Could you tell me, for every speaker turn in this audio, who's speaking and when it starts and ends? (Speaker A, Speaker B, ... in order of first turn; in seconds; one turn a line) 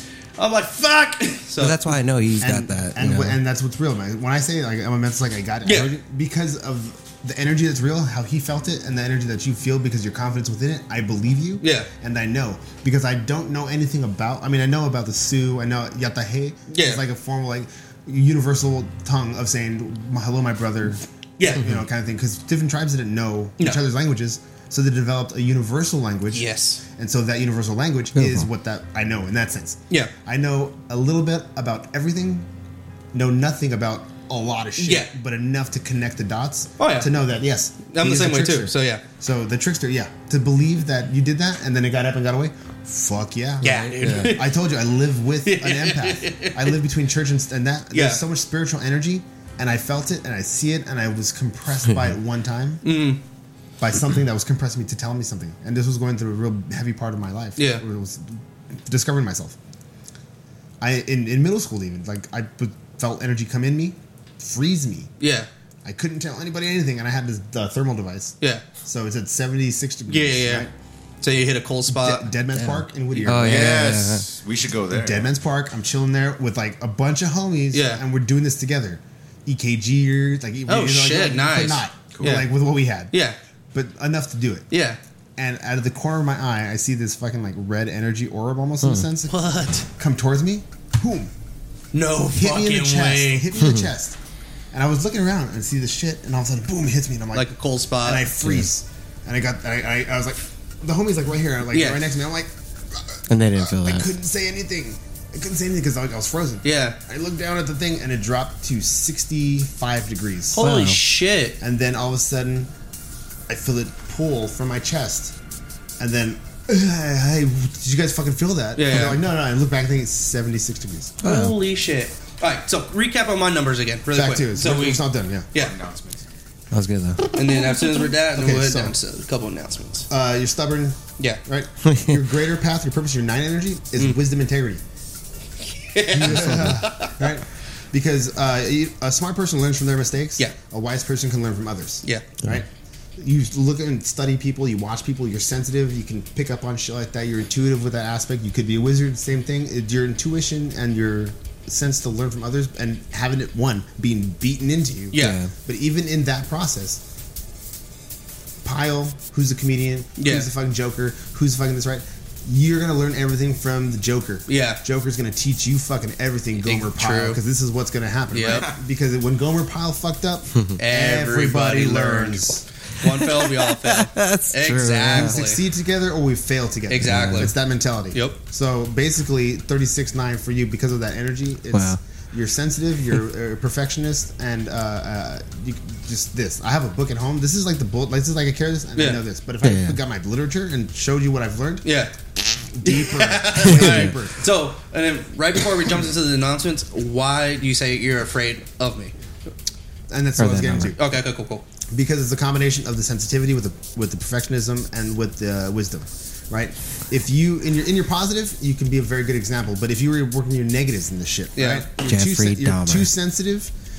Speaker A: 0.4-1.9
Speaker B: 1.6-3.4
Speaker C: 2.4-32.5
Speaker A: 5.6-5.9
Speaker A: 11.6-11.9
Speaker A: 16.7-17.0
Speaker A: 21.4-21.7
Speaker A: 26.3-26.8
Speaker B: 28.2-28.5
Speaker C: 33.1-52.8
Speaker A: 34.8-35.1
Speaker A: 36.8-37.1
Speaker A: 37.9-39.0
Speaker A: 43.6-44.7
Speaker B: 43.8-44.4
Speaker A: 45.4-46.8
Speaker A: 47.9-48.2
Speaker A: 52.8-53.2
Speaker C: 53.8-59.6
Speaker A: 57.6-57.8
Speaker C: 60.8-65.1
Speaker A: 65.2-65.5
Speaker C: 65.8-70.7
Speaker A: 68.4-68.7
Speaker A: 70.1-70.7
Speaker A: 71.2-72.3
Speaker C: 71.9-73.7
Speaker B: 72.5-74.3
Speaker A: 73.1-74.2
Speaker D: 73.5-75.3
Speaker C: 74.9-83.1
Speaker A: 77.7-78.0
Speaker A: 80.7-82.5
Speaker A: 83.1-83.4
Speaker C: 83.7-84.7
Speaker A: 84.7-85.0
Speaker C: 85.4-89.4
Speaker A: 89.3-89.9
Speaker C: 90.0-91.3
Speaker A: 91.9-93.5
Speaker C: 92.3-94.2
Speaker B: 93.5-93.9
Speaker C: 94.7-97.5
Speaker A: 97.3-98.3
Speaker C: 98.0-110.6
Speaker A: 101.7-102.0
Speaker B: 103.3-104.1
Speaker A: 106.7-107.0
Speaker A: 110.5-111.6
Speaker B: 110.6-111.0
Speaker C: 111.6-112.7
Speaker C: 113.5-115.3
Speaker C: 116.0-121.2
Speaker A: 118.8-119.2
Speaker B: 121.2-121.5
Speaker A: 121.2-125.8
Speaker C: 124.1-125.5
Speaker D: 125.5-126.3
Speaker B: 126.7-127.3
Speaker A: 127.3-130.1
Speaker C: 128.3-128.9
Speaker C: 130.1-134.8
Speaker B: 131.9-132.2
Speaker A: 135.7-137.2
Speaker C: 136.1-157.0
Speaker B: 136.3-136.8
Speaker A: 142.0-142.3
Speaker A: 155.1-155.4
Speaker B: 155.2-155.5
Speaker C: 158.6-172.7
Speaker A: 160.2-160.5
Speaker A: 164.5-164.8
Speaker A: 166.6-167.4
Speaker A: 168.3-168.7
Speaker D: 168.4-168.8
Speaker A: 170.8-175.6
Speaker B: 173.1-175.4
Speaker C: 175.1-191.9
Speaker A: 176.9-177.5
Speaker B: 177.0-177.5
Speaker A: 178.1-178.4
Speaker B: 181.7-182.0
Speaker A: 189.0-189.2
Speaker B: 189.6-190.0
Speaker A: 191.8-192.1
Speaker C: 192.7-194.4
Speaker A: 192.8-199.1
Speaker B: 193.6-194.1
Speaker C: 200.1-201.0
Speaker B: 200.4-200.9
Speaker A: 200.8-201.6
Speaker C: 201.9-213.7
Speaker A: 211.6-211.9
Speaker B: 212.0-213.1